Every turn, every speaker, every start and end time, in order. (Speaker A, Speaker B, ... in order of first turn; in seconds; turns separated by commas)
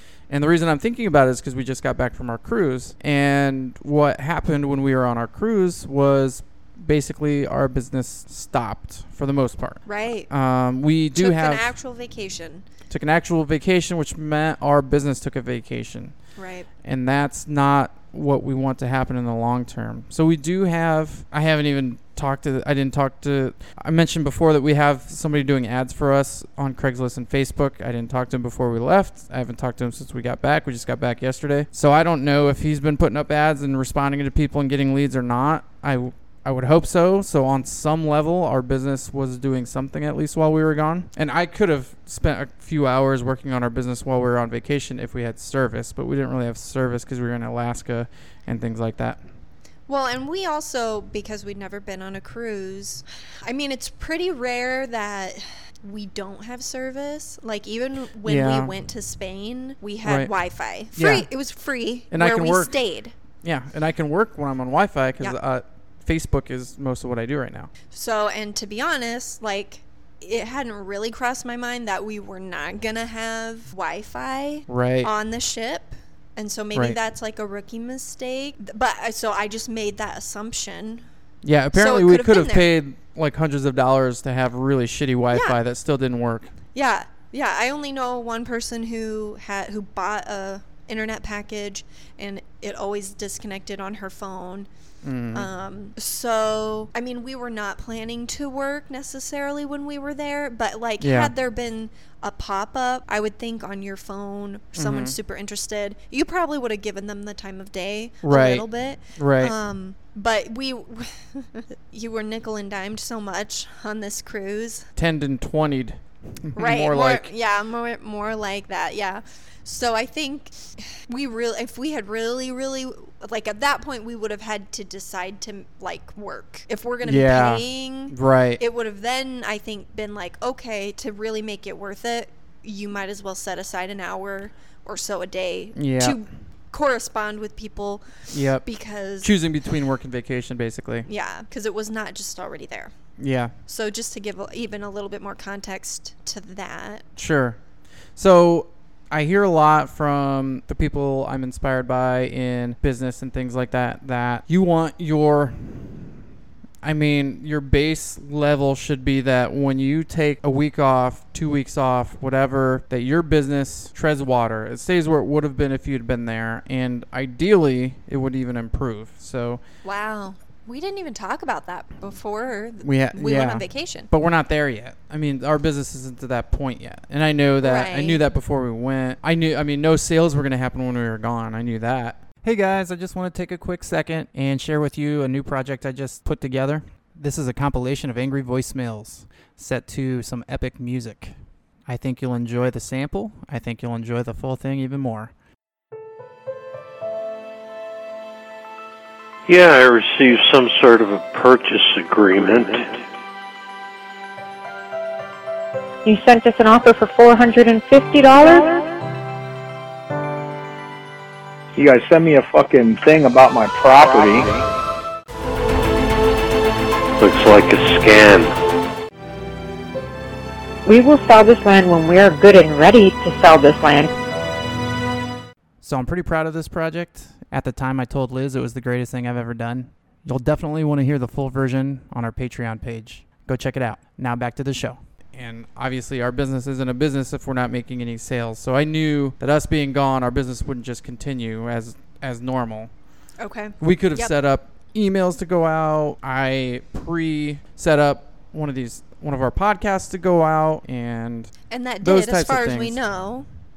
Speaker A: 0.3-11.7, Speaker B: 9.8-10.3, Speaker B: 11.1-12.7, Speaker A: 12.9-49.2, Speaker B: 16.4-16.7, Speaker B: 49.9-63.1, Speaker A: 58.2-58.7, Speaker A: 60.0-60.4, Speaker A: 60.9-61.3, Speaker A: 62.1-62.8, Speaker A: 63.4-67.7, Speaker B: 67.9-81.1, Speaker A: 74.7-75.1, Speaker A: 81.4-86.5, Speaker B: 81.7-82.7, Speaker B: 85.3-85.6, Speaker B: 86.8-94.7, Speaker A: 95.0-95.5, Speaker B: 95.3-114.9, Speaker A: 101.0-101.3, Speaker A: 104.7-105.2, Speaker A: 108.2-109.5, Speaker A: 115.0-117.3, Speaker B: 116.6-139.3, Speaker A: 127.0-128.6, Speaker A: 135.8-136.2, Speaker A: 138.3-138.7, Speaker A: 139.2-141.1, Speaker B: 141.1-142.9, Speaker A: 143.2-143.5, Speaker B: 143.7-147.1, Speaker A: 147.2-147.6, Speaker A: 148.2-156.2, Speaker A: 156.8-169.6, Speaker B: 169.8-174.1, Speaker A: 172.8-195.3, Speaker B: 177.6-178.2, Speaker C: 199.5-203.0, Speaker D: 206.1-208.8, Speaker E: 211.8-214.6, Speaker C: 217.2-218.5, Speaker D: 220.8-224.1, Speaker A: 225.8-242.9, Speaker B: 243.4-244.3, Speaker A: 243.8-253.0, Speaker B: 251.7-253.5